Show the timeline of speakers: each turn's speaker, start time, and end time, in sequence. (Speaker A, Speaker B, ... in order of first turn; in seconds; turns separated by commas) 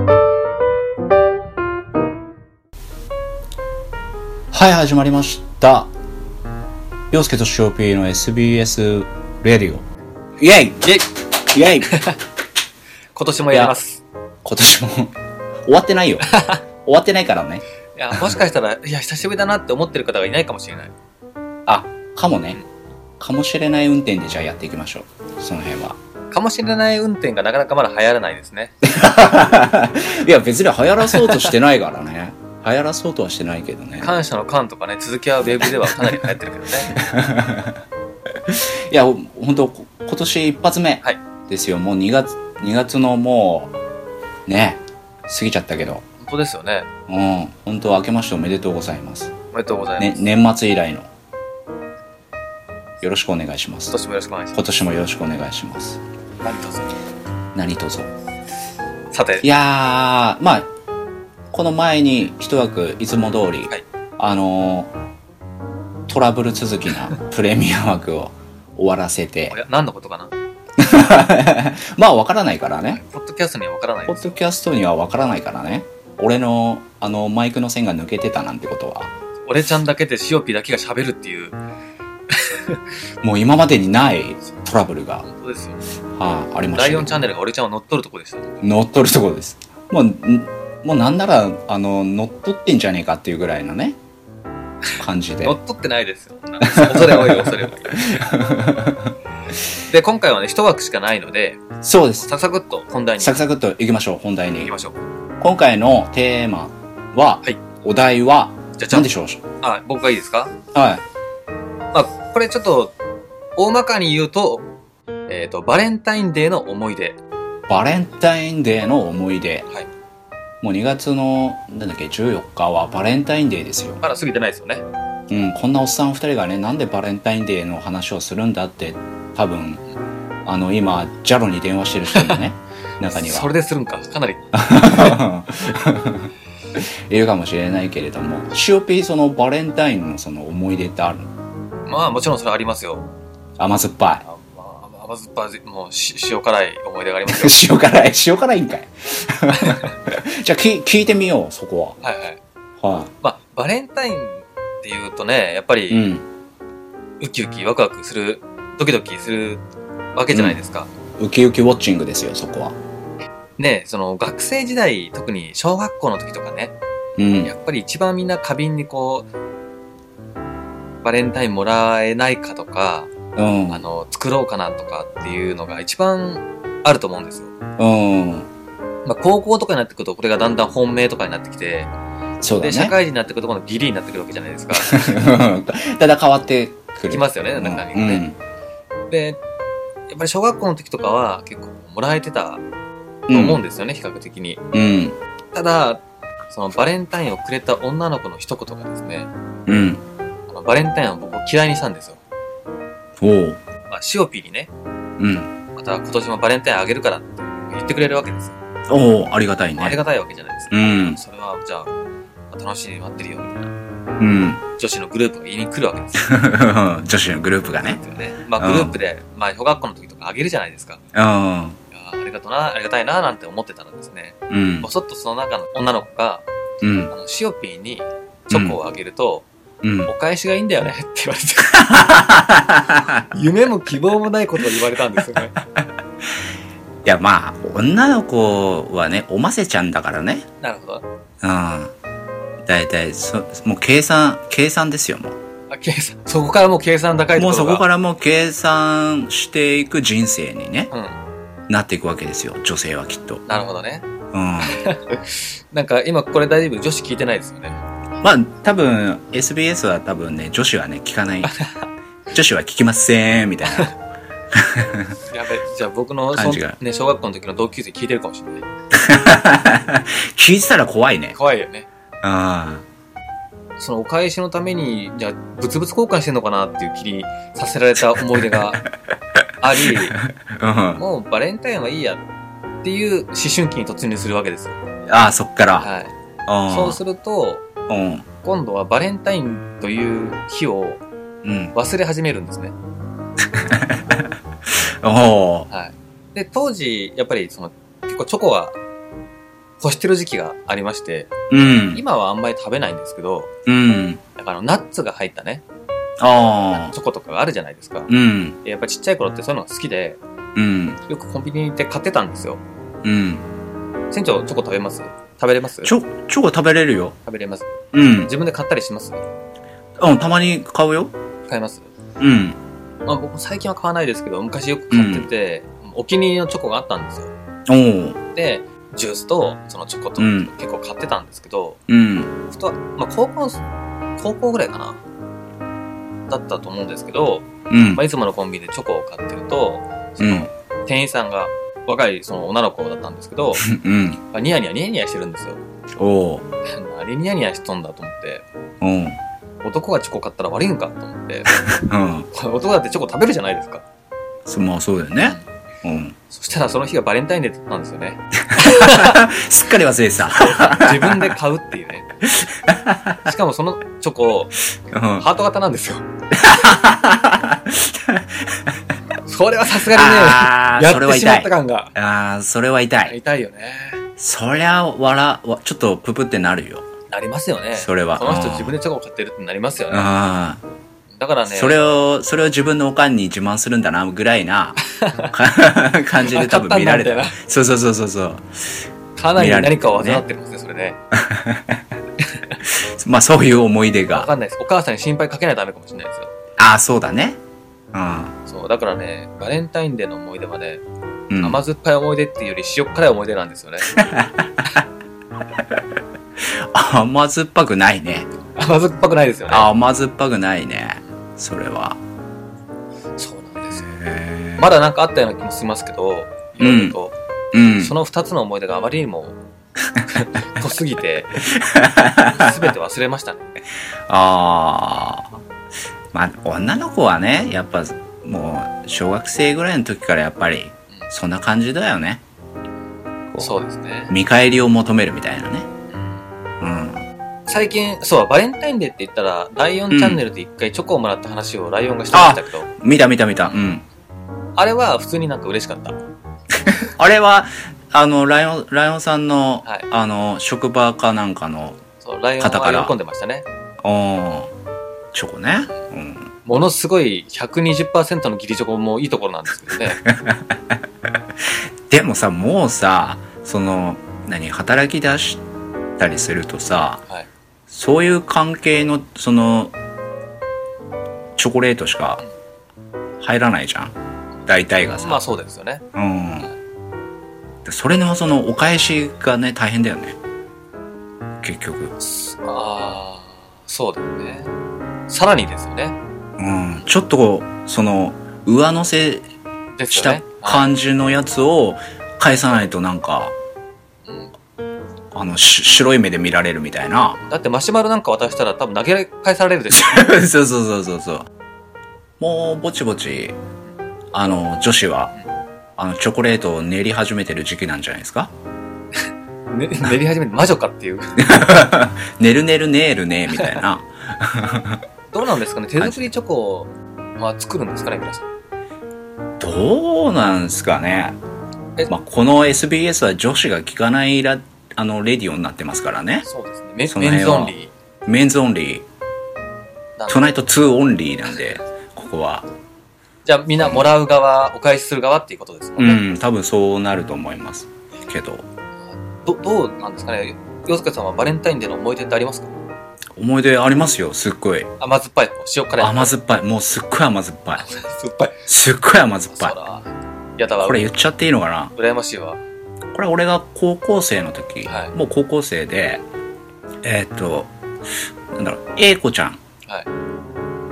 Speaker A: 4.5-5.9, Speaker A: 7.1-9.8, Speaker A: 10.4-10.9, Speaker A: 11.5-12.0, Speaker B: 11.9-12.2, Speaker B: 13.2-14.0, Speaker A: 13.5-13.8, Speaker A: 14.4-15.1, Speaker A: 15.7-18.3, Speaker B: 16.3-16.6, Speaker B: 17.9-20.9, Speaker A: 21.7-22.6, Speaker A: 23.2-26.0, Speaker B: 26.3-28.8, Speaker A: 28.8-34.1, Speaker B: 31.1-31.5, Speaker B: 34.0-36.9, Speaker A: 36.9-37.8, Speaker A: 38.5-43.8, Speaker A: 44.5-46.0, Speaker B: 46.2-46.9, Speaker A: 47.1-49.3, Speaker B: 49.5-50.2, Speaker A: 50.0-51.1, Speaker A: 53.0-54.0, Speaker B: 53.9-54.6, Speaker A: 54.5-56.0, Speaker B: 56.4-57.0, Speaker A: 57.5-58.1, Speaker B: 59.1-59.5, Speaker A: 59.4-60.7, Speaker A: 61.5-64.9, Speaker A: 66.1-69.6, Speaker B: 69.5-70.3, Speaker A: 70.8-73.0, Speaker B: 72.9-74.4, Speaker A: 74.1-79.1, Speaker B: 79.4-81.6, Speaker B: 82.3-82.8, Speaker A: 83.2-85.2, Speaker B: 85.2-85.8, Speaker A: 86.1-87.2, Speaker B: 86.7-88.6, Speaker A: 88.6-94.0, Speaker A: 95.0-95.6, Speaker B: 95.4-98.3, Speaker A: 96.6-99.1, Speaker B: 99.9-101.6, Speaker A: 101.8-102.3, Speaker B: 102.2-103.4, Speaker A: 103.2-104.7, Speaker B: 104.6-105.0, Speaker A: 105.4-109.4, Speaker B: 108.8-109.1, Speaker B: 109.6-110.5, Speaker A: 110.7-111.0, Speaker B: 111.9-112.9, Speaker B: 113.5-114.7, Speaker B: 115.3-117.2, Speaker A: 117.7-119.7, Speaker A: 120.6-124.0, Speaker B: 124.0-124.8, Speaker A: 125.3-129.8, Speaker A: 130.4-133.5, Speaker B: 132.1-132.4, Speaker B: 133.1-135.2, Speaker A: 134.5-141.3, Speaker B: 141.9-143.1, Speaker A: 143.6-144.2, Speaker B: 144.2-147.6, Speaker A: 147.3-152.0, Speaker B: 149.5-149.9, Speaker B: 152.0-152.4, Speaker A: 152.8-153.1, Speaker B: 153.2-156.0, Speaker A: 155.9-156.2, Speaker B: 157.2-159.6, Speaker B: 160.1-160.9, Speaker A: 160.3-160.6, Speaker A: 161.2-162.8, Speaker B: 163.6-166.8, Speaker A: 167.2-167.5, Speaker B: 167.4-169.3, Speaker B: 171.0-173.1, Speaker A: 173.3-173.8, Speaker B: 173.7-177.5, Speaker A: 177.8-178.5, Speaker B: 179.0-181.9, Speaker A: 182.4-182.9, Speaker B: 182.6-185.2, Speaker A: 184.8-188.4, Speaker B: 187.1-188.2, Speaker B: 189.1-189.4, Speaker B: 190.1-192.6, Speaker A: 193.3-193.6, Speaker B: 193.3-194.6, Speaker A: 194.7-195.1, Speaker B: 195.5-199.3, Speaker A: 199.7-200.0, Speaker B: 200.5-202.2, Speaker A: 203.2-203.6, Speaker B: 203.9-204.7, Speaker A: 205.2-205.5, Speaker B: 205.8-208.6, Speaker A: 208.9-210.0, Speaker B: 209.8-211.9, Speaker A: 210.7-211.2, Speaker B: 212.5-213.8, Speaker A: 214.2-214.6, Speaker B: 214.8-216.4, Speaker A: 216.2-218.0, Speaker B: 218.0-221.0, Speaker A: 218.6-219.0, Speaker A: 221.1-221.8, Speaker B: 221.9-226.4, Speaker A: 224.5-224.9, Speaker A: 226.8-227.1, Speaker B: 227.1-229.4, Speaker A: 228.5-228.8, Speaker A: 229.8-230.1, Speaker B: 230.1-231.8, Speaker A: 231.7-233.3, Speaker B: 233.3-235.5, Speaker A: 237.0-240.4, Speaker B: 240.6-241.0, Speaker A: 241.4-241.9, Speaker A: 242.7-245.3, Speaker B: 245.7-247.8, Speaker A: 247.4-250.9, Speaker A: 251.7-253.4, Speaker B: 253.5-254.1, Speaker A: 254.3-254.8, Speaker B: 254.7-257.8, Speaker A: 258.2-261.6, Speaker A: 262.3-264.0, Speaker A: 264.5-265.1, Speaker B: 265.3-268.7, Speaker A: 266.3-266.8, Speaker A: 268.9-271.4, Speaker B: 271.3-271.9, Speaker A: 272.2-272.9, Speaker B: 273.8-278.8, Speaker A: 278.3-278.9, Speaker B: 279.6-280.2, Speaker A: 279.8-281.0, Speaker B: 281.0-282.2, Speaker B: 282.8-284.8, Speaker A: 285.1-285.9, Speaker B: 285.8-286.1, Speaker A: 286.5-287.0, Speaker B: 286.7-287.6, Speaker A: 287.9-288.2, Speaker B: 288.4-291.0, Speaker A: 291.4-291.8, Speaker B: 291.8-292.8, Speaker A: 293.6-294.3, Speaker A: 295.0-295.7, Speaker B: 295.7-298.8, Speaker B: 299.8-301.3, Speaker A: 301.5-302.0, Speaker B: 301.9-303.5, Speaker A: 303.7-304.2, Speaker B: 304.4-305.6, Speaker A: 306.2-306.9, Speaker B: 306.9-308.1, Speaker A: 308.1-308.6, Speaker B: 308.6-310.2, Speaker A: 310.6-311.0, Speaker B: 311.1-312.6, Speaker A: 313.0-313.4, Speaker B: 314.1-315.9, Speaker A: 315.8-317.2, Speaker B: 317.2-319.2, Speaker A: 317.9-318.3, Speaker A: 320.0-321.1, Speaker B: 321.5-321.9, Speaker A: 322.2-322.6, Speaker B: 323.1-327.3, Speaker A: 324.9-325.3, Speaker A: 327.7-328.2, Speaker B: 328.4-331.8, Speaker A: 330.2-330.5, Speaker A: 331.9-332.4, Speaker B: 332.5-333.6, Speaker B: 334.2-335.0, Speaker B: 336.3-343.6, Speaker A: 337.7-338.0, Speaker A: 340.2-340.5, Speaker A: 343.6-344.2, Speaker B: 344.3-345.6, Speaker A: 346.0-346.5, Speaker B: 346.7-348.4, Speaker A: 348.8-349.2, Speaker B: 349.6-351.5, Speaker A: 351.7-352.3, Speaker B: 352.3-353.9, Speaker A: 354.5-356.1, Speaker B: 356.3-359.2, Speaker A: 358.5-361.4, Speaker B: 360.3-362.1, Speaker A: 362.2-363.3, Speaker B: 363.2-364.5, Speaker A: 364.9-365.3, Speaker B: 365.2-366.1, Speaker A: 366.3-368.6, Speaker B: 369.2-371.9, Speaker A: 369.9-373.2, Speaker B: 373.1-374.0, Speaker A: 374.2-376.9, Speaker B: 377.1-380.1, Speaker A: 377.8-378.7, Speaker A: 379.9-380.6, Speaker B: 381.1-381.8, Speaker A: 381.5-384.8, Speaker B: 384.9-385.3, Speaker A: 385.3-388.8, Speaker B: 386.2-387.4, Speaker B: 389.2-391.0, Speaker A: 389.4-390.2, Speaker A: 391.1-391.8, Speaker A: 392.6-394.3, Speaker B: 394.1-396.3, Speaker A: 396.6-397.4, Speaker A: 397.9-398.4, Speaker B: 398.5-400.8, Speaker A: 401.3-401.6, Speaker B: 401.4-403.9, Speaker A: 403.9-404.8, Speaker A: 406.4-408.3, Speaker B: 408.6-409.7, Speaker A: 409.5-412.0, Speaker B: 413.2-413.9, Speaker A: 413.8-414.7, Speaker B: 414.6-417.1, Speaker A: 416.6-417.0, Speaker A: 417.5-417.9, Speaker B: 417.7-419.4, Speaker B: 420.1-421.4, Speaker A: 421.4-422.6, Speaker B: 422.3-423.5, Speaker A: 424.1-425.4, Speaker A: 426.1-432.2, Speaker B: 433.4-434.1, Speaker A: 434.1-435.7, Speaker B: 435.9-436.2, Speaker A: 436.6-437.0, Speaker B: 437.5-442.7, Speaker A: 439.9-440.2, Speaker A: 442.1-443.9, Speaker B: 444.6-446.0, Speaker A: 446.6-451.8, Speaker B: 452.0-453.5, Speaker A: 452.4-452.9, Speaker A: 453.8-454.5, Speaker A: 455.1-456.3, Speaker B: 456.5-460.0, Speaker A: 460.0-460.8, Speaker A: 461.5-465.4, Speaker A: 466.0-467.0, Speaker A: 467.7-469.8, Speaker A: 471.4-472.2, Speaker A: 473.2-473.9, Speaker A: 474.5-475.2, Speaker B: 474.9-475.9, Speaker A: 475.9-476.5, Speaker A: 477.6-480.2, Speaker A: 481.4-481.9, Speaker B: 482.0-484.5, Speaker B: 485.1-486.0, Speaker A: 486.4-489.3, Speaker B: 489.8-490.7, Speaker A: 489.9-493.4, Speaker B: 494.1-494.3, Speaker A: 495.1-497.2, Speaker B: 497.3-500.1, Speaker A: 499.7-501.3, Speaker A: 502.2-503.4, Speaker A: 504.1-505.1, Speaker A: 505.8-508.3, Speaker B: 508.9-511.6, Speaker A: 511.2-514.8, Speaker B: 513.3-513.6, Speaker B: 515.1-518.3, Speaker A: 515.8-516.1, Speaker A: 519.4-521.2, Speaker A: 521.9-526.3, Speaker B: 526.2-527.7, Speaker A: 526.9-527.5, Speaker A: 528.1-528.9, Speaker B: 530.0-530.2, Speaker A: 530.1-532.5, Speaker B: 533.2-536.0, Speaker A: 535.8-538.5, Speaker B: 538.8-542.5, Speaker A: 543.2-544.7, Speaker B: 544.8-546.1, Speaker A: 545.8-547.6, Speaker B: 547.6-548.4, Speaker A: 548.5-549.6, Speaker B: 549.3-550.8, Speaker A: 550.6-551.8, Speaker B: 551.8-552.4, Speaker A: 552.9-556.0, Speaker B: 554.6-555.0, Speaker A: 556.8-557.5, Speaker A: 558.3-559.4